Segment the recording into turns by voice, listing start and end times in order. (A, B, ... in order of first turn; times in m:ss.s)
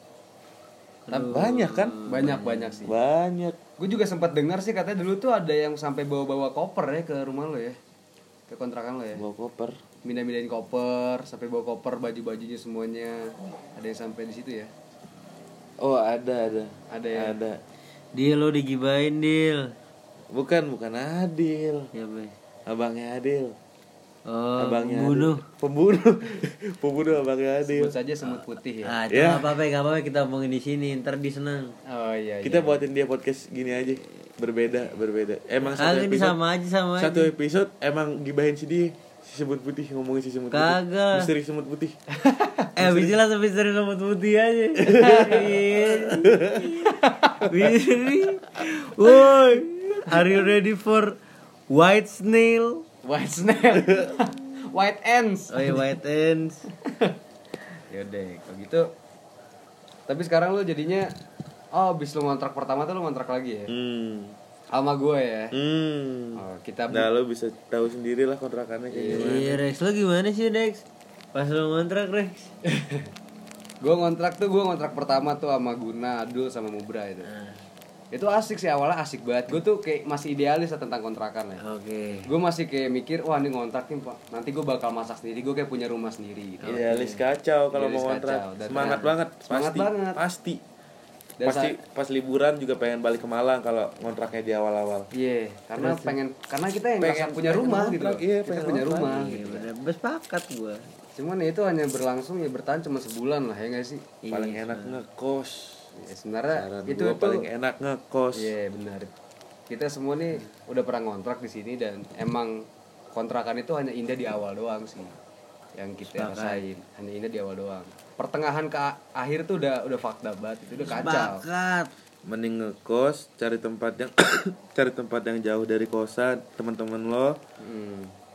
0:01.1-0:02.8 A
0:01.2-0:03.0 B
0:01.2-0:02.0 C
0:02.8-0:03.6 C
0:03.8-0:07.8 B
0:08.5-0:09.2 B
0:09.2-0:09.8 C
0:10.0-0:14.7 B
0:15.8-0:17.6 C
0:16.9-0:17.4 B
0:18.1-0:19.8 A
0:20.3-0:21.9 C
0:21.9-0:22.3 A
0:22.7-0:23.6 C
0:24.3-0:25.4 A
0:24.6-0:27.9 C
0:27.6-0:29.0 B
0:28.8-0:31.7 A
0:29.1-0:29.6 C
0:31.9-0:32.8 B
0:32.4-0:36.4 C
0:35.8-0:37.3 A
0:37.0-0:42.0 C
0:40.5-0:41.3 A
0:42.2-0:42.7 B
0:42.8-0:46.9 A
0:42.8-0:43.2 C
0:44.8-0:46.9 C
0:45.0-0:45.6 B
0:46.8-0:47.7 B
0:47.4-0:51.2 A
0:49.1-0:50.4 B
0:51.7-0:52.8 A
0:53.0-0:55.9 B
0:55.5-0:56.6 A
0:56.8-0:57.2 B
0:57.9-0:58.9 B
1:00.1-1:01.1 B
1:01.7-1:03.7 B
1:03.7-1:04.4 C
1:04.7-1:05.6 B
1:05.5-1:09.6 C
1:06.4-1:07.1 B
1:08.9-1:09.6 B
1:09.1-1:12.5 A
1:12.7-1:13.1 B
1:13.8-1:17.3 B
1:17.2-1:17.6 A
1:18.1-1:21.6 B
1:21.6-1:22.3 A
1:22.3-1:26.9 B
1:26.6-1:27.2 A
1:26.6-1:30.6 C
1:27.7-1:30.2 B
1:31.4-1:31.8 B
1:31.4-1:35.1 C
1:35.1-1:39.7 B
1:35.8-1:36.2 A
1:37.0-1:39.4 C
1:39.0-1:40.8 A
1:41.2-1:44.1 B
1:44.2-1:45.0 A
1:44.3-1:45.9 C
1:46.0-1:47.5 B
1:46.5-1:48.6 C
1:48.3-1:49.1 B
1:49.7-1:55.2 B
1:55.8-2:01.4 B
1:56.0-1:56.6 A
2:00.8-2:01.9 A
2:02.3-2:07.4 C
2:07.6-2:08.1 B